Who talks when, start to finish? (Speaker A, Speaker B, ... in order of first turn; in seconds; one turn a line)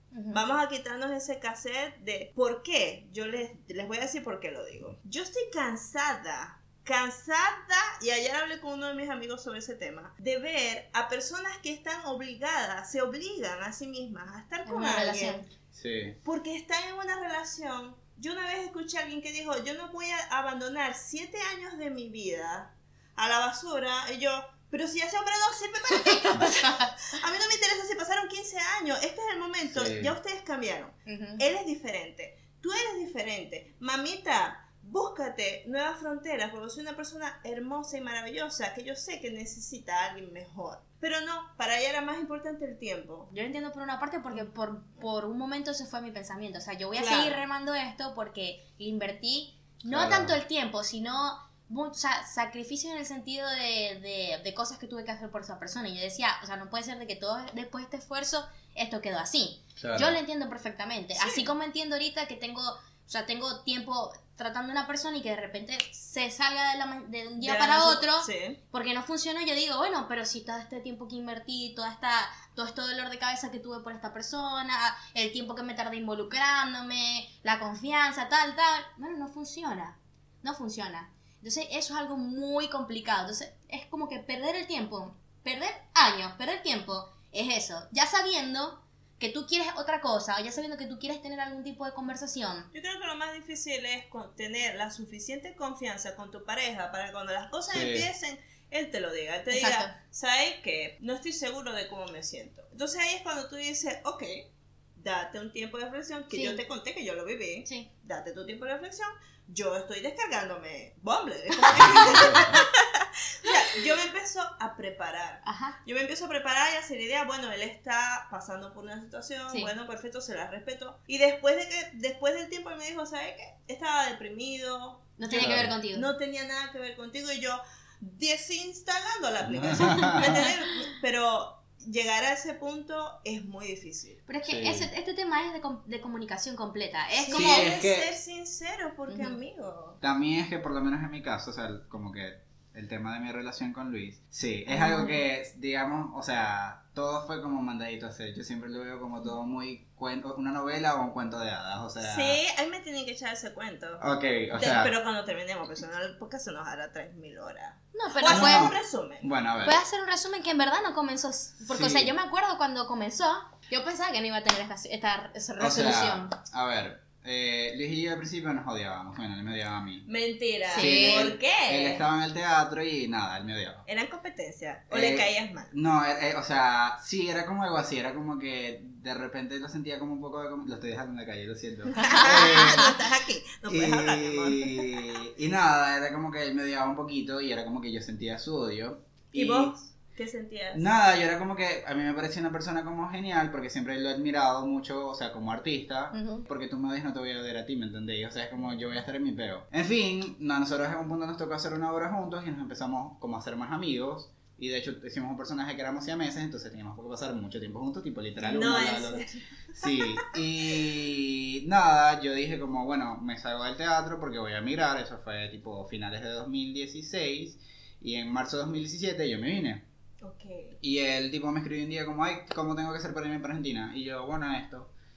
Speaker A: 0.1-0.4
Speaker B: 0.3-15.4
Speaker A: 14.7-15.5
Speaker C: 15.7-16.2
Speaker B: 16.2-43.3
Speaker A: 26.1-26.9
Speaker C: 29.7-30.1
Speaker A: 31.1-31.4
Speaker A: 43.3-92.7
Speaker B: 47.0-47.4
Speaker C: 49.9-50.4
Speaker C: 59.8-60.2
Speaker B: 61.1-61.5
Speaker B: 67.4-68.6
Speaker B: 92.7-134.2
Speaker C: 97.7-98.1
Speaker A: 99.5-99.9
Speaker A: 106.3-106.6
Speaker A: 111.5-112.6
Speaker C: 112.0-112.5
Speaker A: 115.4-115.8
Speaker A: 125.2-126.1
Speaker C: 125.3-125.7
Speaker C: 129.4-130.4
Speaker A: 129.8-130.8
Speaker A: 134.3-137.7
Speaker C: 134.4-134.9
Speaker B: 137.2-140.0
Speaker C: 137.3-138.1
Speaker A: 139.1-139.3
Speaker C: 140.0-152.4
Speaker A: 144.7-145.2
Speaker B: 152.0-154.0
Speaker C: 154.0-154.9
Speaker B: 154.5-159.3
Speaker A: 157.9-158.7
Speaker C: 158.2-159.8
Speaker A: 159.6-166.3
Speaker C: 161.7-162.1
Speaker C: 165.6-170.1
Speaker B: 170.1-172.0
Speaker C: 170.7-173.8
Speaker A: 170.7-171.3
Speaker B: 173.9-175.7
Speaker C: 174.9-182.9
Speaker A: 181.9-182.9
Speaker B: 181.9-185.2
Speaker C: 183.7-189.7
Speaker B: 189.3-190.9
Speaker C: 190.7-209.2
Speaker A: 196.1-196.4
Speaker B: 208.4-210.3
Speaker C: 209.8-219.8
Speaker B: 220.2-220.8
Speaker C: 220.8-224.9